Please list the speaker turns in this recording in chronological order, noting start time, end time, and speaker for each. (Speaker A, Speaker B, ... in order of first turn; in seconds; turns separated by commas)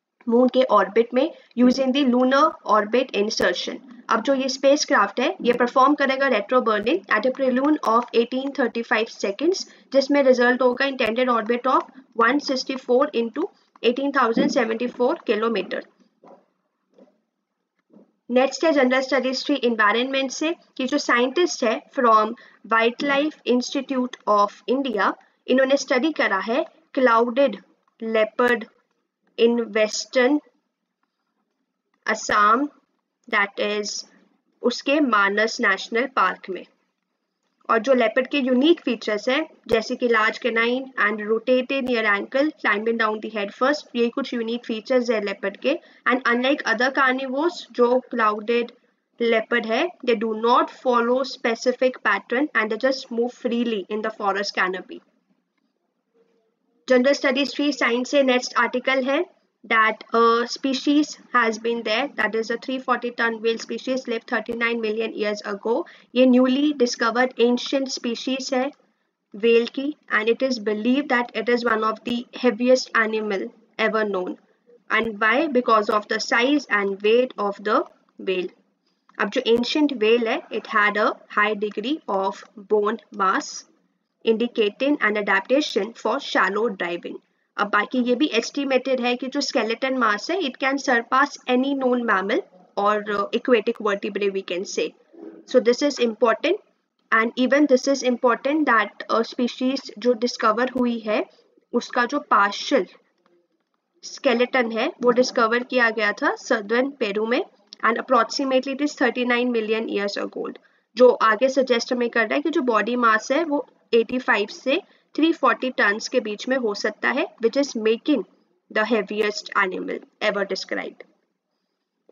Speaker A: 0.3-15.8, Speaker A: 18.3-28.7, Speaker A: 29.4-30.4, Speaker A: 32.1-32.7, Speaker A: 33.3-34.1, Speaker A: 34.6-36.7, Speaker A: 37.7-55.0, Speaker A: 56.9-68.7, Speaker A: 69.3-78.5, Speaker A: 79.2-83.7, Speaker A: 84.2-94.9, Speaker A: 95.5-96.6, Speaker A: 97.1-102.9, Speaker A: 104.0-121.0